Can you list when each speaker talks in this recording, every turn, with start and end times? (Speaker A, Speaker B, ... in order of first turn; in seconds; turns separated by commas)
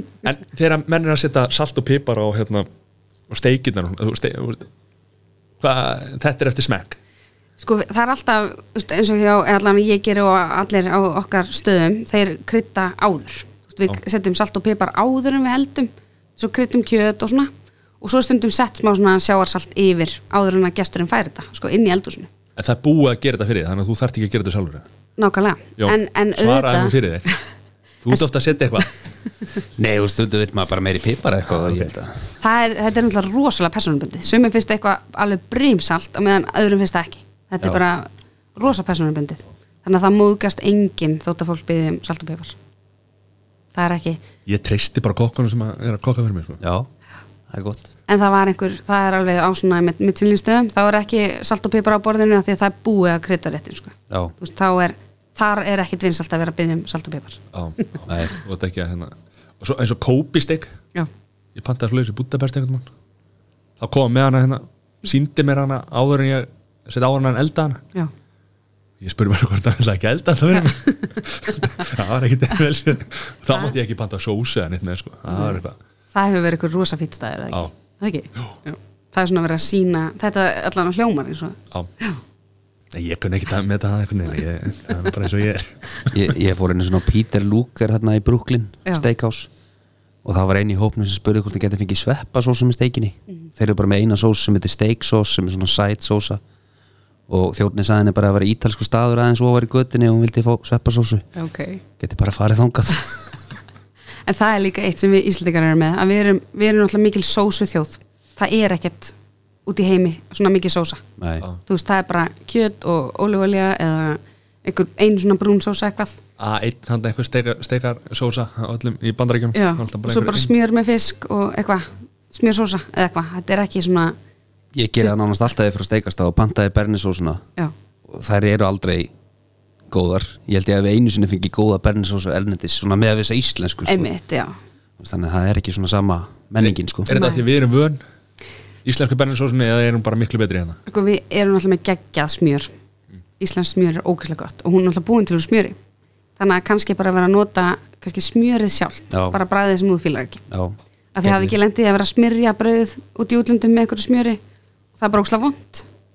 Speaker A: 0.2-2.7, Speaker A: 3.3-4.7, Speaker A: 5.6-7.0, Speaker B: 7.6-22.3, Speaker A: 22.6-24.9, Speaker B: 25.2-27.4, Speaker A: 25.8-27.3, Speaker A: 28.0-28.9, Speaker C: 29.8-32.2, Speaker A: 31.6-31.9, Speaker B: 32.4-42.6, Speaker B: 43.7-44.2, Speaker A: 44.5-46.6, Speaker C: 46.6-46.9, Speaker C: 47.5-47.9, Speaker B: 48.1-57.9, Speaker A: 57.5-60.8, Speaker C: 58.1-58.4, Speaker A: 61.5-62.9, Speaker A: 63.8-67.8, Speaker A: 69.0-75.8, Speaker B: 70.5-71.1, Speaker B: 75.3-75.6, Speaker B: 76.1-82.2, Speaker A: 82.9-86.2, Speaker C: 86.1-89.5, Speaker C: 90.2-96.4, Speaker C: 97.3-101.3, Speaker B: 101.4-101.8, Speaker C: 102.0-103.1, Speaker B: 104.3-109.2, Speaker B: 109.7-111.0, Speaker C: 111.2-111.5, Speaker B: 111.7-116.2, Speaker A: 116.4-120.5, Speaker B: 119.5-124.2, Speaker C: 124.7-127.4, Speaker C: 128.1-129.1, Speaker C: 129.9-134.1, Speaker B: 133.8-134.6, Speaker C: 135.0-137.1, Speaker A: 136.6-138.0, Speaker B: 137.1-137.4, Speaker A: 138.8-140.8, Speaker B: 140.9-142.7, Speaker B: 143.4-145.8, Speaker B: 146.4-150.4, Speaker C: 149.1-149.4, Speaker C: 150.5-151.6, Speaker B: 151.1-154.4, Speaker B: 155.0-155.9